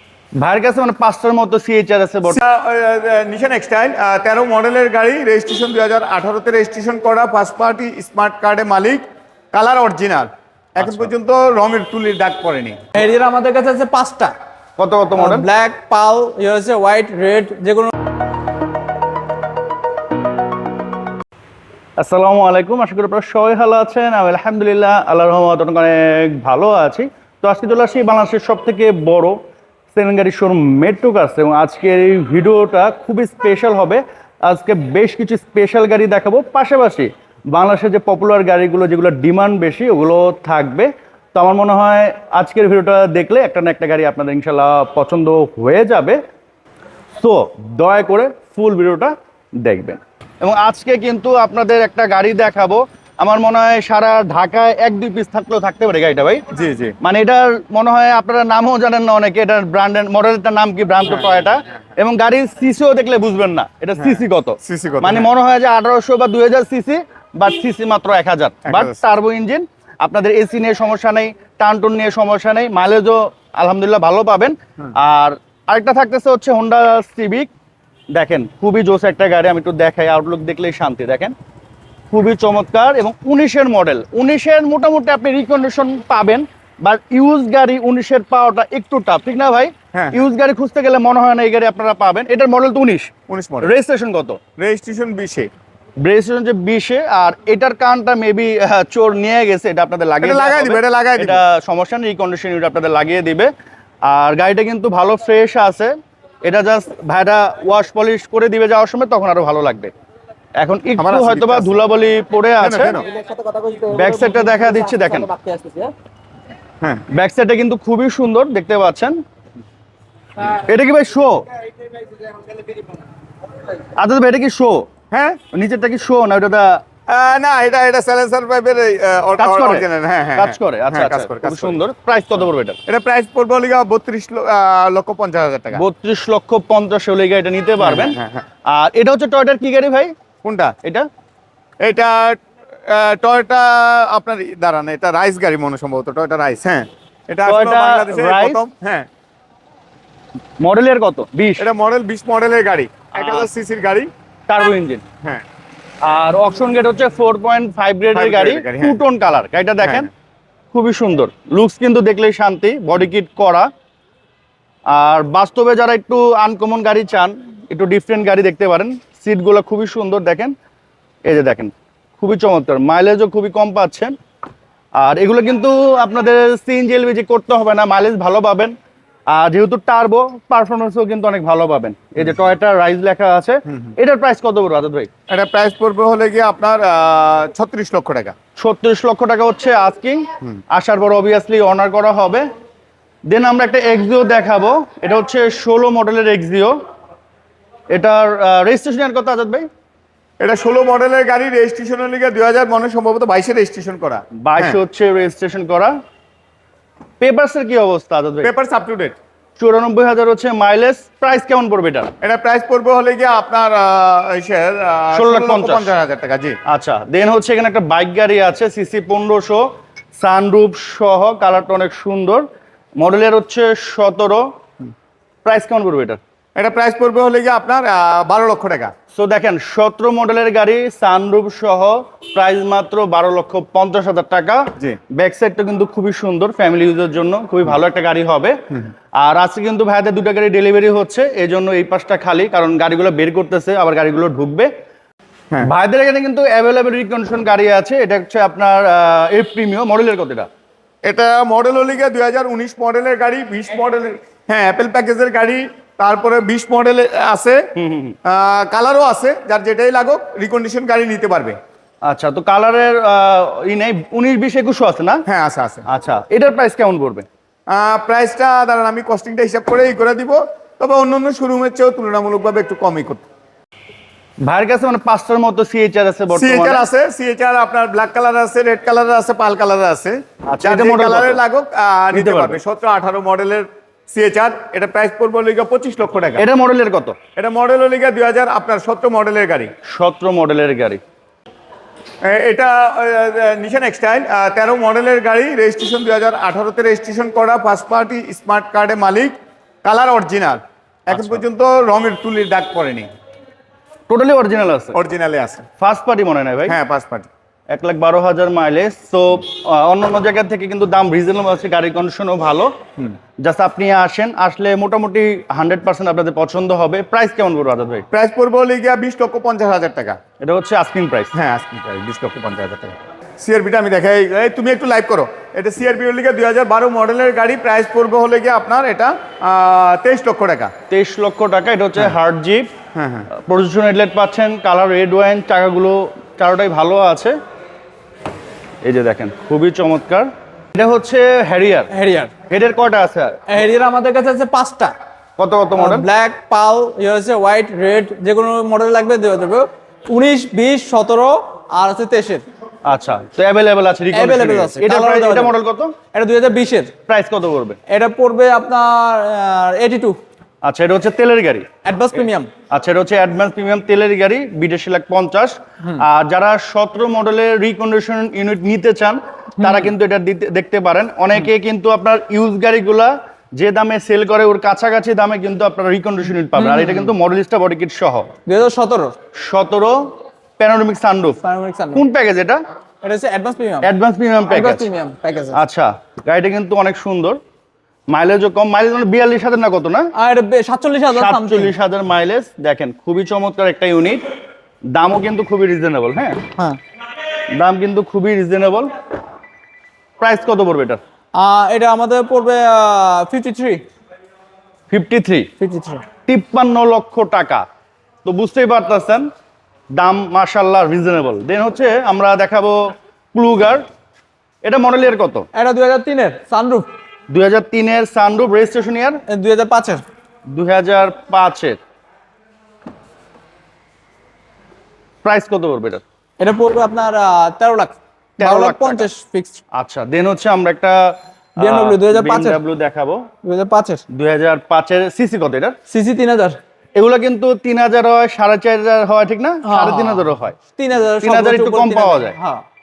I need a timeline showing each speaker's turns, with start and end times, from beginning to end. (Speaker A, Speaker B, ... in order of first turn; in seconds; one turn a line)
Speaker A: 0.4-2.4
Speaker B: 2.3-12.8
Speaker A: 10.8-11.1
Speaker C: 12.9-14.3
Speaker A: 14.8-15.5
Speaker C: 15.2-17.9
Speaker A: 22.0-29.4
Speaker A: 29.9-46.2
Speaker A: 47.2-56.4
Speaker B: 56.5-56.9
Speaker A: 57.0-77.5
Speaker B: 64.0-65.3
Speaker B: 68.7-69.0
Speaker A: 78.1-81.3
Speaker A: 82.1-94.4
Speaker B: 89.9-90.2
Speaker B: 93.3-93.7
Speaker B: 94.6-95.5
Speaker A: 96.0-103.5
Speaker B: 100.2-101.4
Speaker A: 104.0-109.9
Speaker A: 110.6-113.0
Speaker B: 111.0-111.8
Speaker B: 112.6-113.0
Speaker C: 113.0-115.9
Speaker A: 113.9-115.3
Speaker A: 117.1-119.2
Speaker A: 120.4-121.5
Speaker C: 122.2-122.6
Speaker A: 123.9-124.9
Speaker B: 125.1-125.4
Speaker A: 125.5-126.8
Speaker B: 127.1-131.8
Speaker A: 129.4-132.8
Speaker B: 132.9-135.8
Speaker A: 135.7-140.1
Speaker B: 137.8-138.4
Speaker B: 140.4-140.7
Speaker A: 140.8-141.1
Speaker B: 141.8-149.1
Speaker A: 147.4-148.6
Speaker A: 150.6-151.6
Speaker B: 151.6-154.1
Speaker A: 153.2-153.5
Speaker A: 154.5-155.0
Speaker A: 156.0-160.1
Speaker B: 158.1-159.0
Speaker B: 159.8-160.1
Speaker A: 160.7-163.7
Speaker A: 164.9-170.5
Speaker A: 171.2-174.2
Speaker A: 175.0-178.7
Speaker A: 179.3-185.1
Speaker B: 185.3-188.3
Speaker A: 188.6-192.4
Speaker A: 193.3-196.8
Speaker A: 197.9-199.7
Speaker B: 200.4-204.8
Speaker A: 204.4-205.9
Speaker A: 207.2-208.5
Speaker B: 208.4-209.2
Speaker A: 209.6-212.1
Speaker B: 212.2-216.6
Speaker A: 215.1-215.9
Speaker A: 216.7-219.6
Speaker A: 220.2-222.4
Speaker A: 223.0-224.5
Speaker A: 225.4-226.2
Speaker B: 226.6-228.9
Speaker A: 229.1-238.6
Speaker A: 239.2-244.7
Speaker A: 245.6-250.5
Speaker B: 251.0-257.6
Speaker A: 257.7-258.2
Speaker B: 258.2-261.6
Speaker A: 262.1-265.2
Speaker B: 265.3-265.8
Speaker A: 265.9-267.2
Speaker B: 267.7-273.2
Speaker A: 274.4-276.8
Speaker B: 276.3-286.4
Speaker A: 280.5-281.4
Speaker A: 282.1-282.6
Speaker A: 286.4-287.2
Speaker B: 287.4-289.7
Speaker A: 289.9-291.0
Speaker B: 292.2-303.1
Speaker A: 301.1-301.4
Speaker A: 304.1-305.0
Speaker B: 304.9-305.7
Speaker A: 305.8-306.8
Speaker B: 306.7-307.3
Speaker A: 307.7-312.7
Speaker A: 313.4-318.1
Speaker B: 318.1-320.2
Speaker A: 320.4-321.3
Speaker B: 321.3-330.7
Speaker A: 330.9-332.7
Speaker B: 332.9-333.3
Speaker A: 333.3-337.4
Speaker A: 338.8-341.9
Speaker C: 341.9-342.3
Speaker A: 342.5-343.4
Speaker C: 343.5-344.9
Speaker A: 345.4-346.1
Speaker C: 345.8-352.4
Speaker A: 352.9-355.9
Speaker C: 354.1-355.6
Speaker C: 356.1-356.9
Speaker A: 357.1-357.8
Speaker C: 357.9-360.2
Speaker A: 360.6-361.7
Speaker C: 361.8-362.5
Speaker A: 362.7-378.3
Speaker C: 369.6-369.9
Speaker C: 376.5-377.1
Speaker C: 378.5-379.1
Speaker A: 379.3-381.4
Speaker C: 381.4-382.0
Speaker A: 381.9-382.6
Speaker C: 383.0-383.9
Speaker A: 383.8-384.9
Speaker C: 384.5-385.6
Speaker A: 385.5-387.4
Speaker A: 388.1-390.1
Speaker C: 390.1-391.7
Speaker A: 391.1-394.2
Speaker A: 394.9-396.4
Speaker A: 397.5-398.9
Speaker A: 400.2-401.0
Speaker C: 401.4-403.8
Speaker A: 404.9-405.5
Speaker C: 405.6-406.0
Speaker A: 406.3-407.6
Speaker A: 408.2-409.3
Speaker A: 409.9-413.8
Speaker A: 414.6-415.5
Speaker C: 415.5-416.9
Speaker A: 417.3-419.2
Speaker C: 419.3-420.0
Speaker A: 420.5-421.8
Speaker A: 425.2-426.0
Speaker C: 426.4-429.6
Speaker A: 428.4-429.1
Speaker A: 429.7-433.3
Speaker C: 431.6-432.6
Speaker C: 433.4-434.0
Speaker A: 434.1-435.8
Speaker C: 435.9-436.6
Speaker A: 436.9-440.6
Speaker C: 439.6-442.6
Speaker A: 441.2-442.4